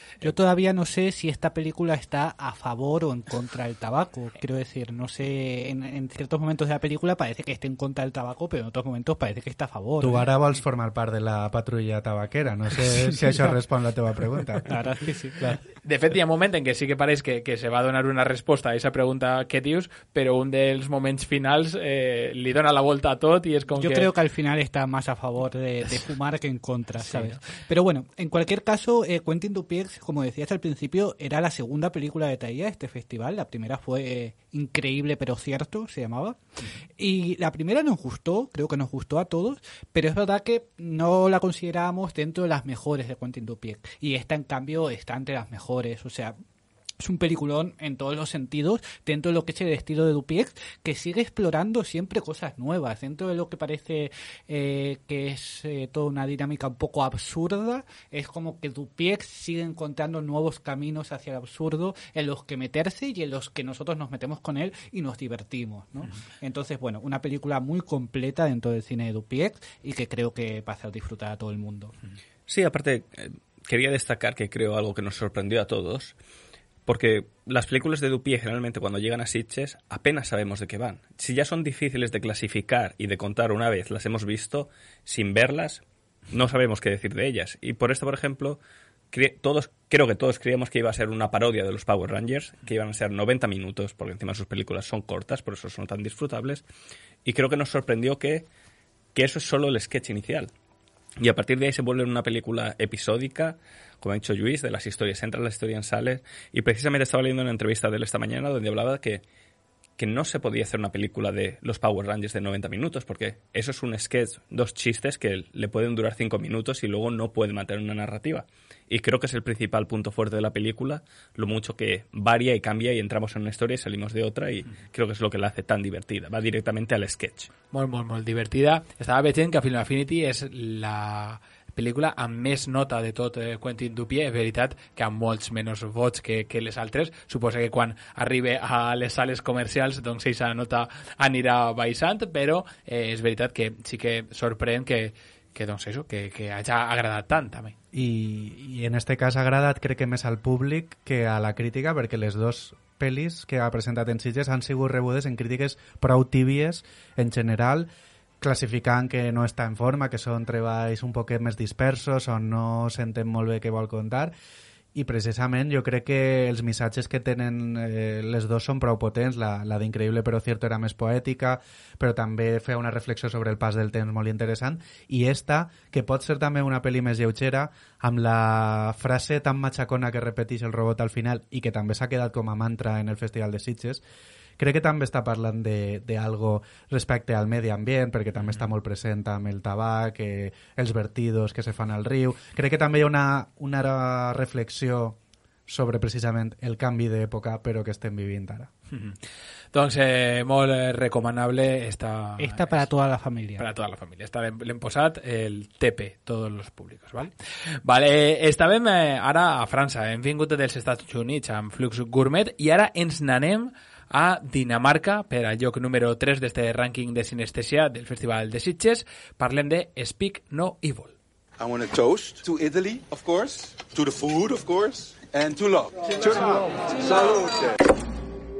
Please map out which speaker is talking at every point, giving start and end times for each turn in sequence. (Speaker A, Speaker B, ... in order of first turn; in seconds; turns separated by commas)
Speaker A: 0.2-10.2, Speaker B: 10.0-14.7, Speaker A: 14.6-15.6, Speaker C: 15.8-24.1, Speaker A: 23.7-36.4, Speaker C: 27.0-27.4, Speaker A: 37.0-46.4, Speaker A: 47.0-71.9, Speaker D: 72.5-76.1, Speaker D: 76.9-88.6, Speaker D: 89.1-96.6, Speaker D: 97.2-98.5, Speaker D: 99.1-100.5, Speaker D: 101.2-109.2, Speaker D: 110.0-127.5, Speaker C: 127.7-147.8, Speaker B: 147.9-157.9, Speaker B: 158.4-164.3, Speaker B: 164.9-184.0, Speaker B: 184.6-198.7, Speaker C: 198.9-199.2, Speaker C: 199.7-202.9, Speaker A: 202.4-203.7, Speaker C: 203.6-207.3, Speaker C: 207.8-221.1, Speaker E: 221.6-227.6